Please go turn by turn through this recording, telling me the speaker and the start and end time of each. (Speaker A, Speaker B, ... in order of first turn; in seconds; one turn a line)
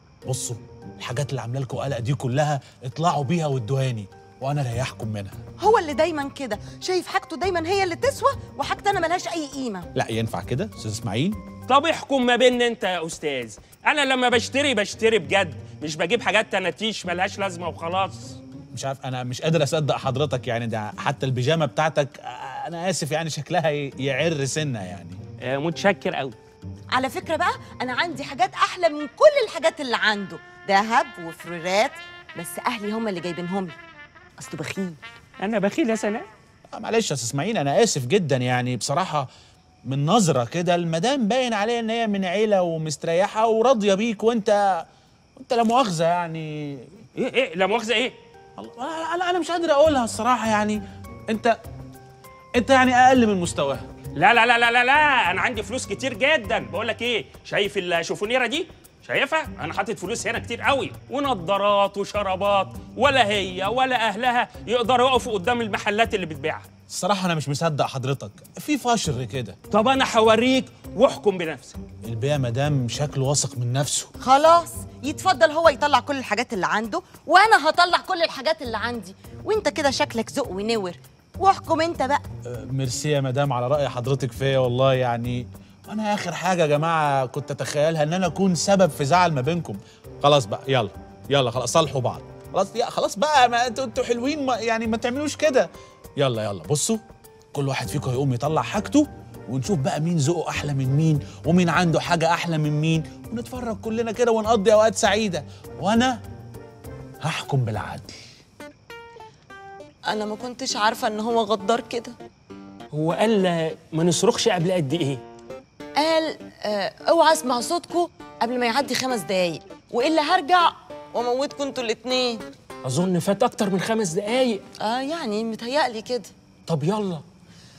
Speaker A: 0.2-5.4
Speaker B: 5.6-9.9
Speaker A: 9.9-11.4
Speaker C: 11.7-18.4
Speaker A: 18.7-25.2
Speaker C: 25.4-26.4
Speaker B: 26.9-33.8
Speaker B: 34.4-35.0
Speaker C: 35.4-36.3
Speaker A: 36.7-39.3
Speaker A: 39.9-46.9
Speaker C: 47.1-48.1
Speaker A: 48.6-51.5
Speaker A: 52.5-53.9
Speaker C: 54.1-66.7
Speaker A: 66.9-69.6
Speaker C: 69.7-71.8
Speaker A: 72.0-74.1
Speaker B: 74.2-82.2
Speaker A: 82.4-97.0
Speaker A: 97.5-106.2
Speaker A: 107.2-108.2
Speaker B: 110.1-112.2
Speaker C: 112.9-115.2
Speaker B: 116.0-122.4
Speaker C: 122.8-124.6
Speaker B: 124.8-126.3
Speaker C: 126.7-127.2